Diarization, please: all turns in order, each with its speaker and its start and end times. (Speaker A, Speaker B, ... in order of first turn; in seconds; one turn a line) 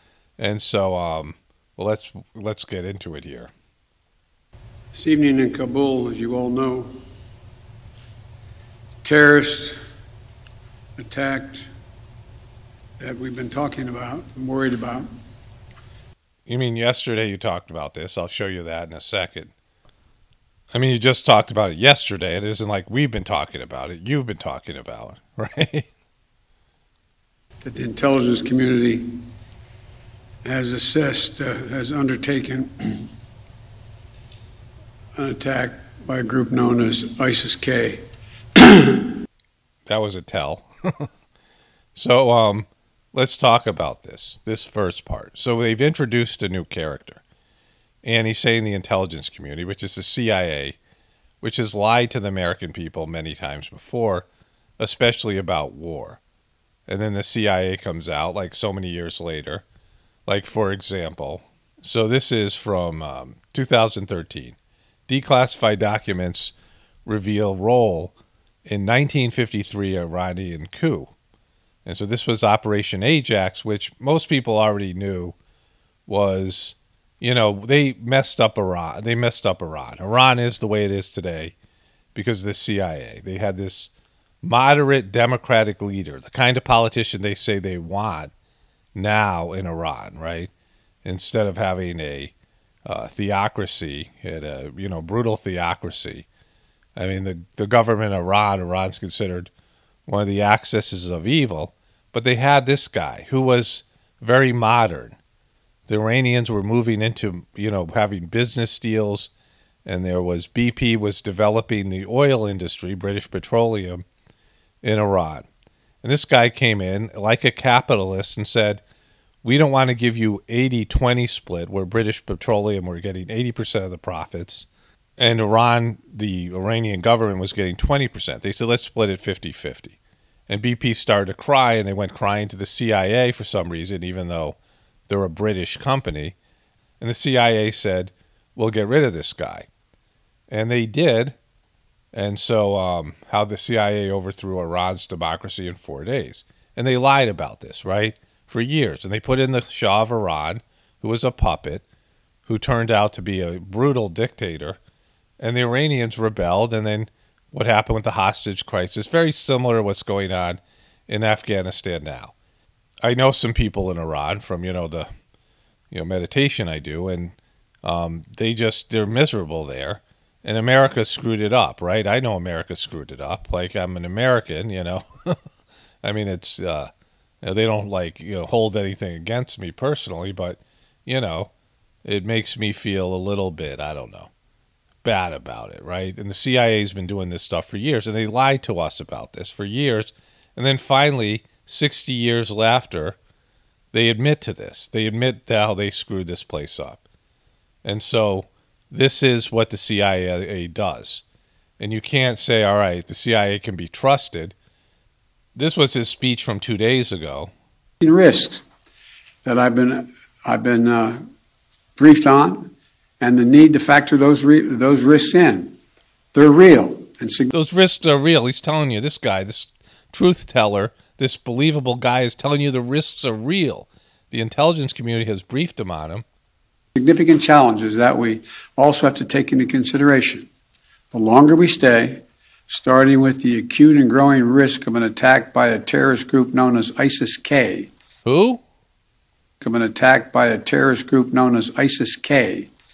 Speaker A: 0.4-3.5
Speaker B: 4.9-6.9
Speaker B: 9.0-9.8
Speaker B: 11.0-11.7
Speaker B: 13.0-15.1
Speaker A: 16.5-19.5
Speaker A: 20.7-25.9
Speaker B: 27.6-29.2
Speaker B: 30.4-33.1
Speaker B: 35.1-38.0
Speaker B: 38.6-39.1
Speaker A: 39.9-41.1
Speaker A: 41.9-47.2
Speaker A: 48.0-50.8
Speaker A: 51.4-54.2
Speaker A: 54.8-56.2
Speaker A: 56.9-59.6
Speaker A: 60.3-64.5
Speaker A: 65.1-66.5
Speaker A: 67.0-68.1
Speaker A: 68.7-71.1
Speaker A: 71.8-75.3
Speaker A: 76.1-81.5
Speaker A: 82.1-83.9
Speaker A: 84.4-88.3
Speaker A: 88.9-90.5
Speaker A: 91.0-92.3
Speaker A: 92.8-96.2
Speaker A: 97.0-99.5
Speaker A: 100.1-105.2
Speaker A: 105.9-109.3
Speaker A: 109.8-114.0
Speaker A: 114.8-115.5
Speaker A: 116.0-118.8
Speaker A: 119.4-124.7
Speaker A: 125.2-129.9
Speaker A: 130.5-134.6
Speaker A: 135.1-136.3
Speaker A: 137.0-139.7
Speaker A: 140.5-141.3
Speaker A: 142.1-151.8
Speaker A: 152.5-154.8
Speaker A: 155.4-162.3
Speaker A: 163.0-165.1
Speaker A: 165.9-175.4
Speaker A: 176.0-176.9
Speaker A: 177.4-181.5
Speaker A: 182.0-184.3
Speaker A: 185.0-193.2
Speaker A: 193.9-197.0
Speaker A: 197.8-201.2
Speaker A: 201.8-204.5
Speaker A: 205.6-207.5
Speaker B: 208.0-208.6
Speaker B: 209.4-211.3
Speaker B: 212.0-215.7
Speaker B: 216.3-217.5
Speaker A: 217.5-226.2
Speaker B: 226.9-230.5
Speaker B: 231.1-237.9
Speaker A: 238.2-238.6
Speaker B: 239.6-242.7